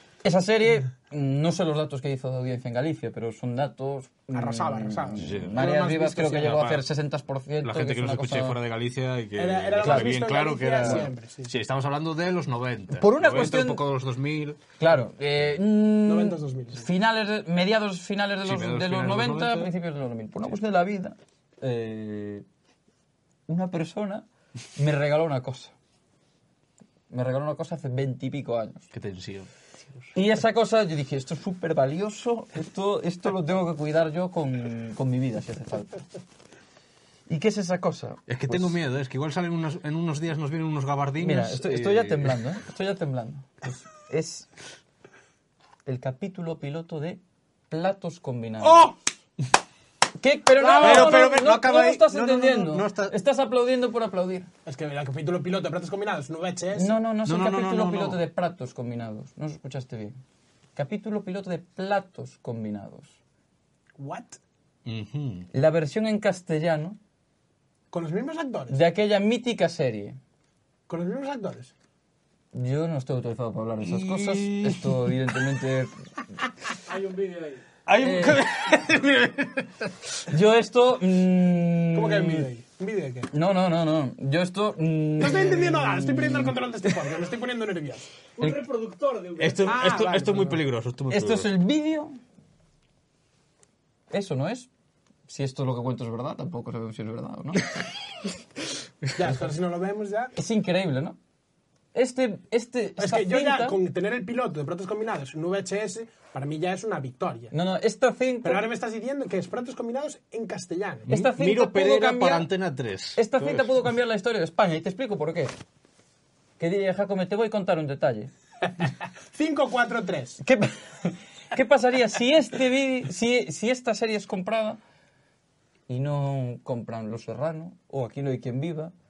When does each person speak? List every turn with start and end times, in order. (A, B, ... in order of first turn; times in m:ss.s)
0:00.2-0:08.6 A
0:04.3-0:06.5 B
0:05.2-0:06.8 C
0:07.6-0:14.6 C
0:09.4-0:11.5 B
0:09.8-0:10.1 A
0:10.8-0:11.1 A
0:12.9-0:13.8 A
0:14.8-0:22.4 A
0:16.0-0:16.9 B
0:18.4-0:19.7 C
0:23.5-0:25.7 A
0:27.1-0:28.9 A
0:28.9-0:30.0 C
0:30.1-0:36.0 A
0:37.3-0:38.8 A
0:38.3-0:42.4 C
0:41.2-0:44.5 A
0:45.8-0:47.2 A
0:47.7-0:48.9 A
0:48.6-0:48.9 B
0:50.2-0:54.5 A
0:50.6-0:51.2 B
0:50.6-0:53.1 C
0:54.6-0:56.9 B
0:56.7-1:00.2 A
0:57.2-0:58.2 C
1:00.8-1:03.1 A
1:04.0-1:04.4 B
1:04.8-1:05.5 C
1:05.5-1:07.0 A
1:07.9-1:08.8 B
1:08.7-1:10.2 A
1:10.9-1:11.7 B
1:12.5-1:15.9 A
1:13.8-1:14.9 C
1:16.8-1:17.6 D
1:17.9-1:18.7 A
1:17.9-1:19.9 C
1:20.2-1:22.5 A
1:21.9-1:23.3 B
1:23.3-1:27.1 A
1:25.2-1:28.1 B
1:28.4-1:29.7 D
1:29.4-1:31.5 C
1:29.6-1:30.6 B
1:31.1-1:32.2 A
1:34.1-1:34.7 A
1:35.3-1:37.7 A
1:39.2-1:40.3 B
1:40.4-1:41.2 A
1:41.9-1:43.8 A
1:43.0-1:47.5 B
1:47.5-1:48.6 A
1:48.4-1:51.1 B
1:51.1-1:52.5 A
1:51.1-1:53.7 C
1:53.2-1:55.5 A
1:56.6-1:58.3 A
1:59.3-2:00.4 B
2:00.4-2:04.8 A
2:05.9-2:08.9 A